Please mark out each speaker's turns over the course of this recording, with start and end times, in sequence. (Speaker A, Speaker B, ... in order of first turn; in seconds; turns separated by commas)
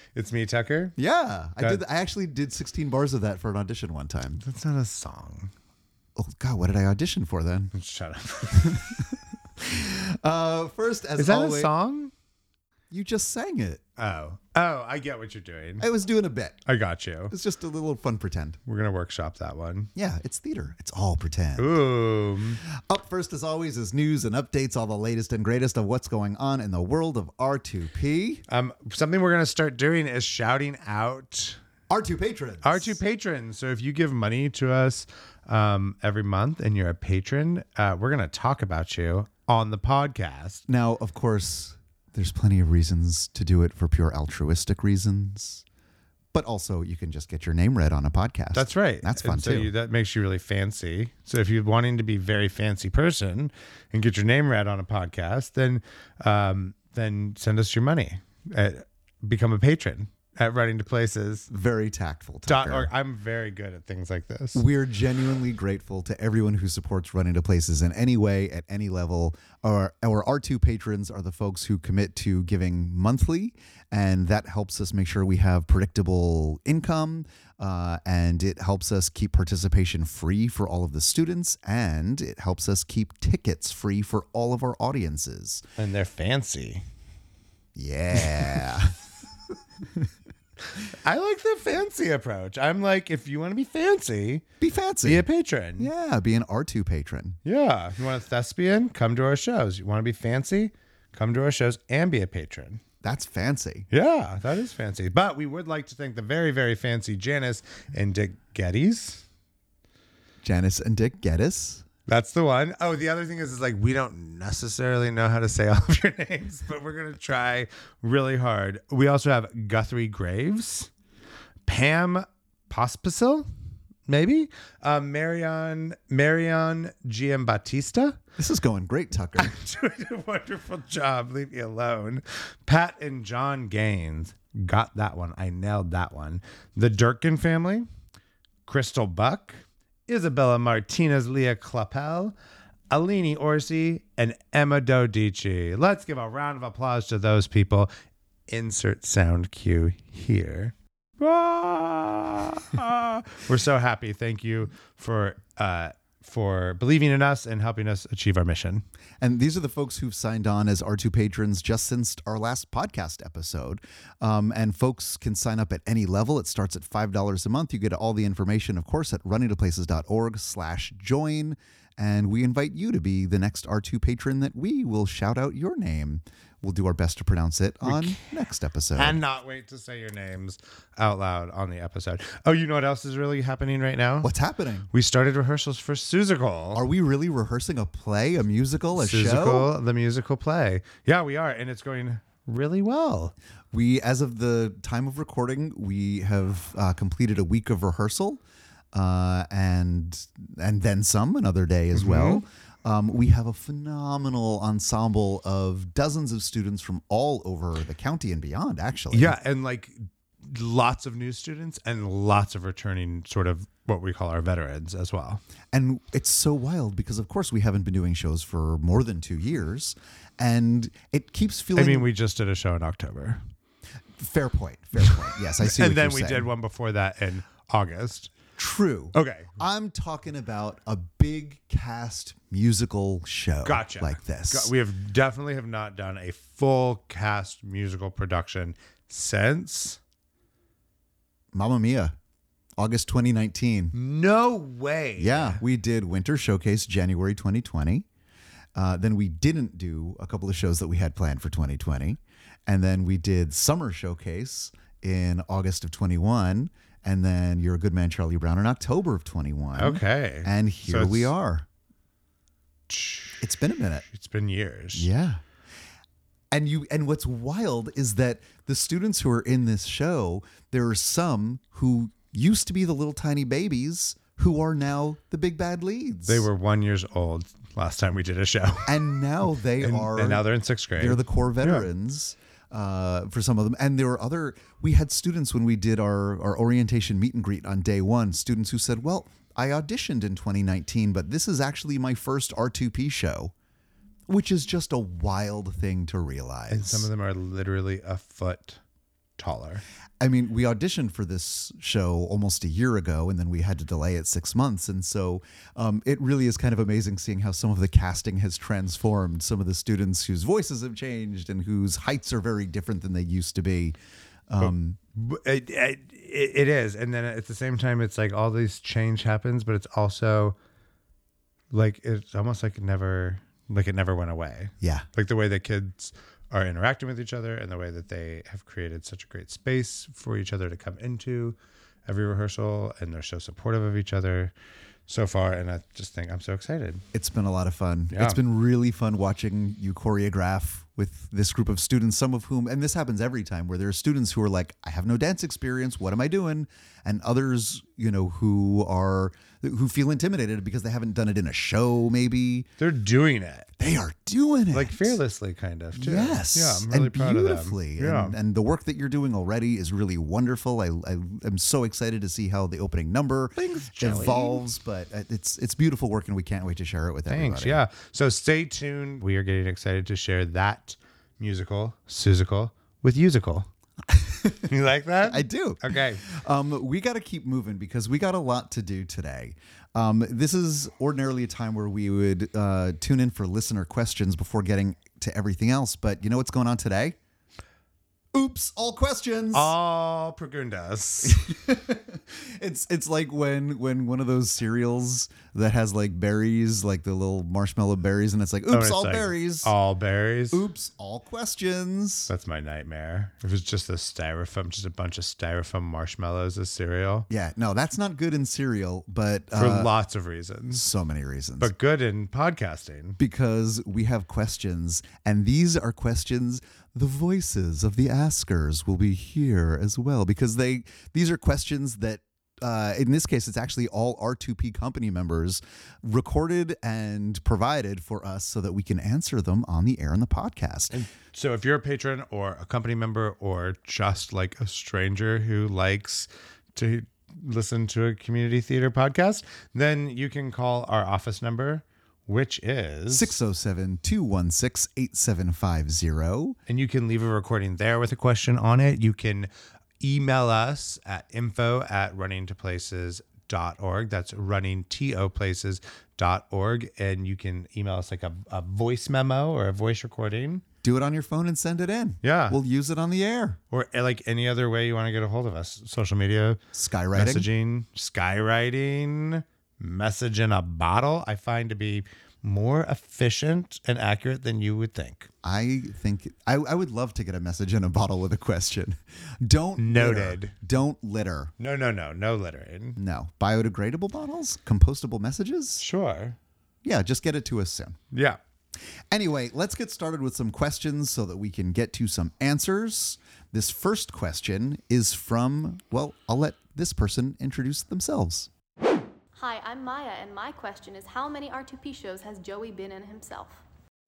Speaker A: 0.1-1.0, Speaker B: 1.0-4.4, Speaker A: 4.4-5.5, Speaker B: 6.2-7.7, Speaker A: 7.7-9.1, Speaker B: 8.5-11.7, Speaker A: 11.2-12.1, Speaker B: 12.9-13.8, Speaker A: 14.0-15.9, Speaker B: 15.8-16.6, Speaker A: 16.7-17.3, Speaker B: 17.3-18.6, Speaker A: 18.7-19.9, Speaker B: 20.0-21.8, Speaker A: 21.6-22.6, Speaker B: 22.7-28.4, Speaker A: 28.5-31.6, Speaker B: 31.9-33.0, Speaker A: 32.6-40.6, Speaker B: 40.7-45.6, Speaker B: 46.3-49.7, Speaker A: 48.5-61.5, Speaker B: 61.5-62.9, Speaker A: 62.5-64.7, Speaker B: 64.5-85.6, Speaker A: 85.8-86.8, Speaker B: 87.8-89.0, Speaker B: 89.8-90.1, Speaker A: 90.8-94.4, Speaker B: 94.6-95.3, Speaker A: 95.0-95.9, Speaker B: 95.8-97.4, Speaker A: 97.5-102.8, Speaker B: 103.0-103.9, Speaker A: 103.9-109.2, Speaker B: 110.4-111.8, Speaker A: 112.1-120.9, Speaker A: 121.7-123.5, Speaker A: 124.1-128.2, Speaker B: 128.4-129.6, Speaker A: 129.4-137.9, Speaker A: 138.7-142.3, Speaker A: 142.9-147.9, Speaker A: 148.5-158.8, Speaker B: 159.2-179.2, Speaker A: 177.8-178.3, Speaker A: 178.9-184.3, Speaker B: 184.2-184.9, Speaker A: 184.9-186.8, Speaker B: 186.7-189.7, Speaker A: 188.9-193.3, Speaker B: 193.7-198.4, Speaker B: 198.9-209.4, Speaker A: 201.9-202.4, Speaker A: 209.1-215.4, Speaker B: 215.7-222.1, Speaker A: 221.8-223.4, Speaker B: 224.2-226.5, Speaker A: 225.0-228.3, Speaker B: 228.6-234.7, Speaker A: 229.1-229.6, Speaker A: 233.6-240.0, Speaker B: 241.5-242.2, Speaker B: 242.8-243.9, Speaker A: 243.9-245.6, Speaker B: 245.2-248.1, Speaker B: 248.8-261.7, Speaker A: 259.8-261.3, Speaker A: 262.9-263.5, Speaker B: 263.4-264.1, Speaker A: 264.1-265.1, Speaker B: 264.9-265.4, Speaker B: 266.5-276.5, Speaker A: 276.3-279.2, Speaker B: 278.9-293.5, Speaker A: 279.8-281.9, Speaker B: 294.3-297.1, Speaker A: 296.7-298.8, Speaker A: 299.4-299.8, Speaker B: 300.2-314.0, Speaker B: 314.5-315.0, Speaker A: 314.6-320.6, Speaker A: 321.7-334.5, Speaker B: 324.8-325.1, Speaker A: 335.1-337.0, Speaker B: 337.1-352.7, Speaker A: 338.1-338.4, Speaker A: 352.8-353.7, Speaker B: 353.8-355.2, Speaker A: 354.7-358.4, Speaker B: 355.9-367.8, Speaker A: 363.6-364.6, Speaker A: 367.3-373.7, Speaker B: 374.1-374.7, Speaker A: 374.7-376.3, Speaker B: 375.2-387.2, Speaker B: 388.3-389.7, Speaker A: 389.5-391.4, Speaker B: 391.2-399.7, Speaker A: 398.7-400.6, Speaker B: 400.5-402.3, Speaker A: 402.3-407.3, Speaker B: 407.3-409.9, Speaker A: 409.5-410.8, Speaker B: 410.7-411.7, Speaker A: 411.6-413.2, Speaker B: 413.2-431.0, Speaker A: 430.9-443.3, Speaker B: 443.1-446.6, Speaker A: 446.7-449.5, Speaker A: 450.0-460.6, Speaker B: 460.8-463.6, Speaker A: 462.2-462.6, Speaker A: 463.7-466.6, Speaker B: 466.7-467.5, Speaker A: 467.1-475.3, Speaker B: 475.4-481.5, Speaker A: 479.8-480.5, Speaker A: 481.6-483.0, Speaker B: 483.0-485.8, Speaker A: 485.8-486.4, Speaker B: 486.8-488.0, Speaker A: 488.1-488.4, Speaker B: 489.1-498.5, Speaker C: 499.4-503.6